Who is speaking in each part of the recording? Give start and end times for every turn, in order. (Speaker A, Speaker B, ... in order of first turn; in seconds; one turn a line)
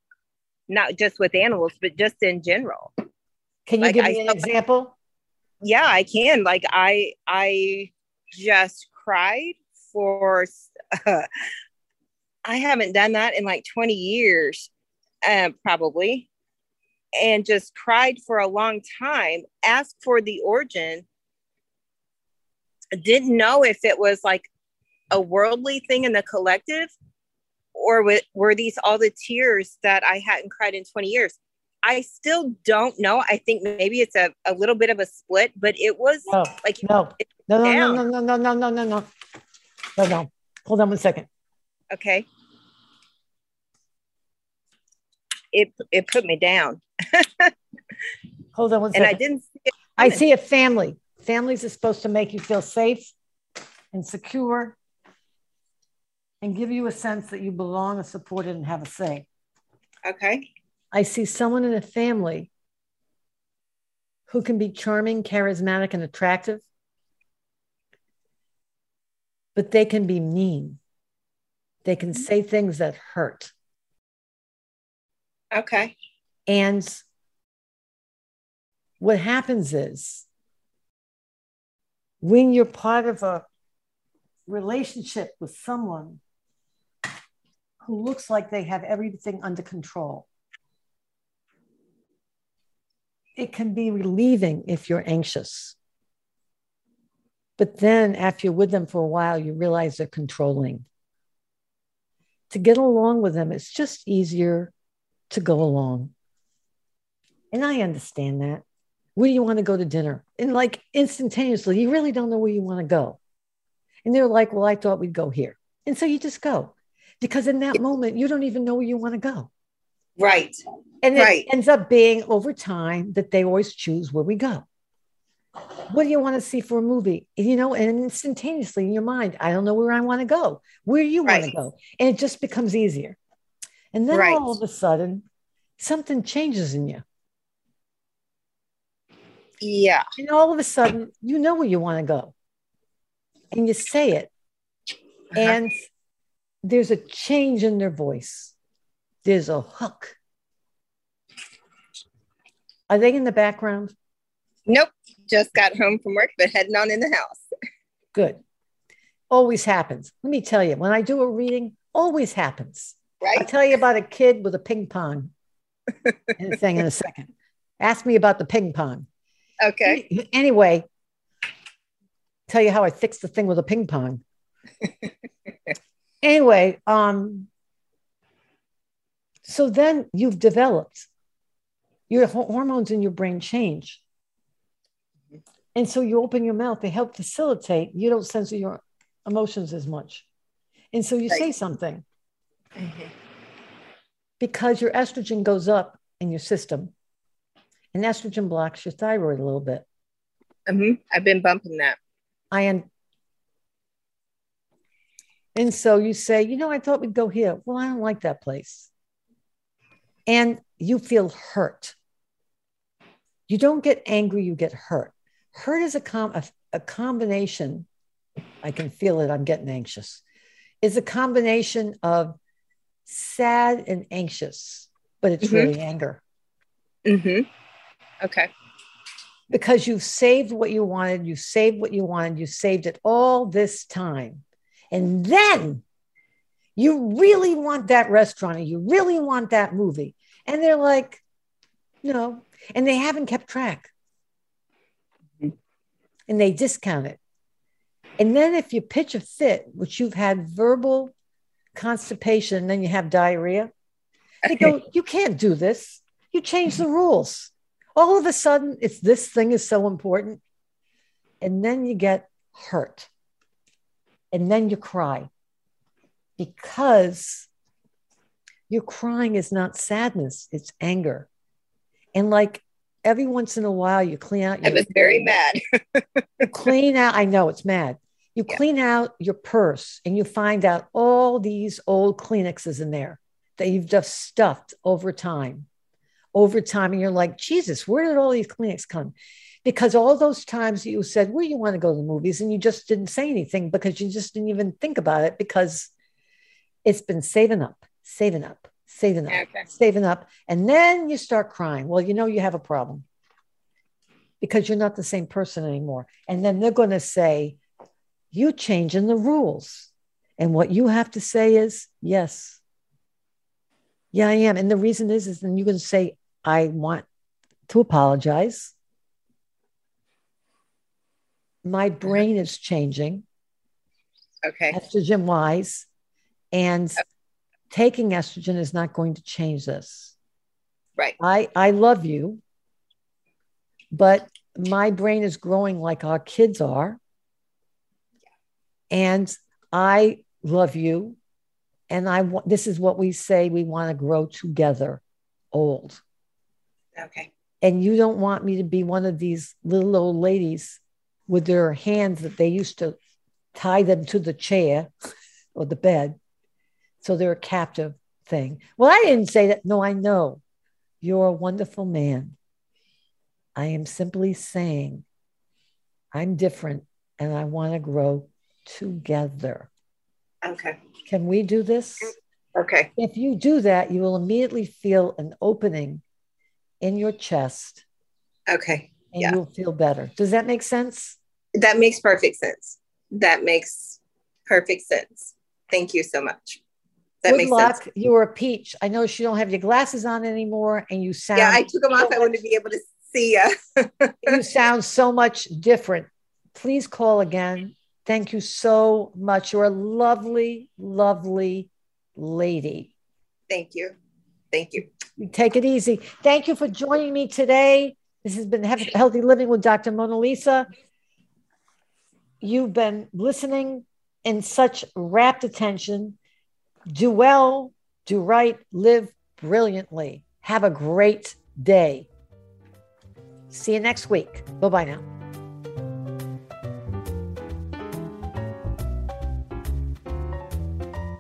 Speaker A: 0.7-2.9
Speaker B: 3.6-4.9
Speaker A: 3.8-4.5
Speaker A: 5.6-11.3
Speaker A: 12.4-14.7
Speaker A: 15.2-16.3
Speaker A: 17.2-21.0
Speaker A: 23.0-24.5
Speaker A: 25.1-26.9
Speaker A: 27.7-36.9
Speaker B: 36.3-39.1
Speaker A: 37.6-38.0
Speaker B: 40.0-41.3
Speaker A: 41.9-42.3
Speaker A: 45.5-47.5
Speaker B: 48.5-49.2
Speaker A: 48.9-50.2
Speaker B: 50.0-53.1
Speaker B: 53.9-54.8
Speaker B: 56.4-59.2
Speaker A: 60.0-60.5
Speaker B: 60.9-62.5
Speaker B: 64.3-66.6
Speaker B: 69.5-70.8
Speaker B: 71.8-73.5
Speaker A: 75.5-75.9
Speaker B: 76.5-77.0
Speaker B: 79.0-80.2
Speaker B: 82.2-83.4
Speaker B: 84.5-86.2
Speaker B: 87.8-90.3
Speaker B: 93.4-95.8
Speaker B: 97.6-100.8
Speaker B: 102.5-104.7
Speaker B: 105.3-106.1
Speaker B: 107.5-108.6
Speaker B: 109.2-113.2
Speaker B: 114.0-119.5
Speaker A: 120.2-120.6
Speaker B: 121.0-124.6
Speaker A: 121.1-121.5
Speaker B: 125.9-133.2
Speaker B: 133.9-135.2
Speaker A: 134.1-134.4
Speaker B: 135.8-137.0
Speaker A: 139.6-140.0
Speaker B: 140.2-142.3
Speaker B: 143.5-144.3
Speaker B: 145.3-145.8
Speaker B: 146.6-148.5
Speaker B: 149.2-150.2
Speaker B: 152.9-153.9
Speaker A: 154.7-157.4
Speaker B: 158.1-158.4
Speaker B: 159.3-165.3
Speaker A: 163.2-163.5
Speaker B: 166.3-167.3
Speaker B: 167.8-169.1
Speaker A: 169.6-170.0
Speaker B: 169.8-170.9
Speaker B: 172.5-174.2
Speaker B: 176.2-177.5
Speaker B: 179.4-181.1
Speaker B: 182.1-184.0
Speaker B: 185.7-190.2
Speaker B: 190.9-192.0
Speaker A: 192.8-193.1
Speaker B: 194.4-196.9
Speaker B: 197.9-199.8
Speaker A: 200.7-202.0
Speaker B: 202.5-202.8
Speaker B: 205.5-208.9
Speaker B: 210.3-211.9
Speaker B: 213.5-217.9
Speaker B: 218.6-220.2
Speaker B: 220.8-222.4
Speaker B: 223.1-226.2
Speaker A: 225.4-225.7
Speaker A: 227.1-227.5
Speaker A: 228.2-228.5
Speaker B: 229.5-235.8
Speaker B: 236.8-241.2
Speaker B: 242.0-243.9
Speaker B: 246.3-247.2
Speaker B: 248.2-251.1
Speaker B: 251.7-253.7
Speaker B: 254.4-260.4
Speaker B: 261.4-263.1
Speaker B: 264.3-265.3
Speaker B: 266.4-267.5
Speaker B: 268.7-271.3
Speaker B: 272.1-275.2
Speaker A: 274.6-276.5
Speaker B: 276.5-285.7
Speaker B: 286.3-295.9
Speaker B: 296.8-303.0
Speaker A: 299.3-299.7
Speaker B: 304.4-307.6
Speaker B: 308.3-312.6
Speaker B: 314.1-317.1
Speaker B: 317.7-318.7
Speaker B: 321.6-323.2
Speaker A: 324.4-324.8
Speaker B: 324.7-325.9
Speaker B: 326.5-327.0
Speaker B: 327.7-330.1
Speaker B: 331.2-332.4
Speaker B: 333.9-337.0
Speaker B: 338.9-341.2
Speaker B: 341.9-345.0
Speaker B: 345.5-346.0
Speaker A: 347.0-347.3
Speaker B: 347.6-352.9
Speaker B: 353.5-354.9
Speaker B: 355.5-356.2
Speaker B: 357.0-360.4
Speaker B: 361.0-362.4
Speaker B: 363.6-365.0
Speaker B: 366.1-369.7
Speaker A: 370.4-370.8
Speaker B: 371.1-372.1
Speaker A: 372.5-372.9
Speaker B: 372.9-376.0
Speaker B: 376.8-377.8
Speaker A: 378.5-379.4
Speaker B: 379.1-381.2
Speaker A: 381.6-386.6
Speaker A: 387.2-387.8
Speaker B: 387.2-392.4
Speaker A: 391.3-394.4
Speaker B: 394.2-402.9
Speaker A: 403.5-403.9
Speaker A: 404.5-404.8
Speaker B: 405.2-410.7
Speaker B: 412.4-416.2
Speaker B: 416.9-422.1
Speaker B: 423.5-425.0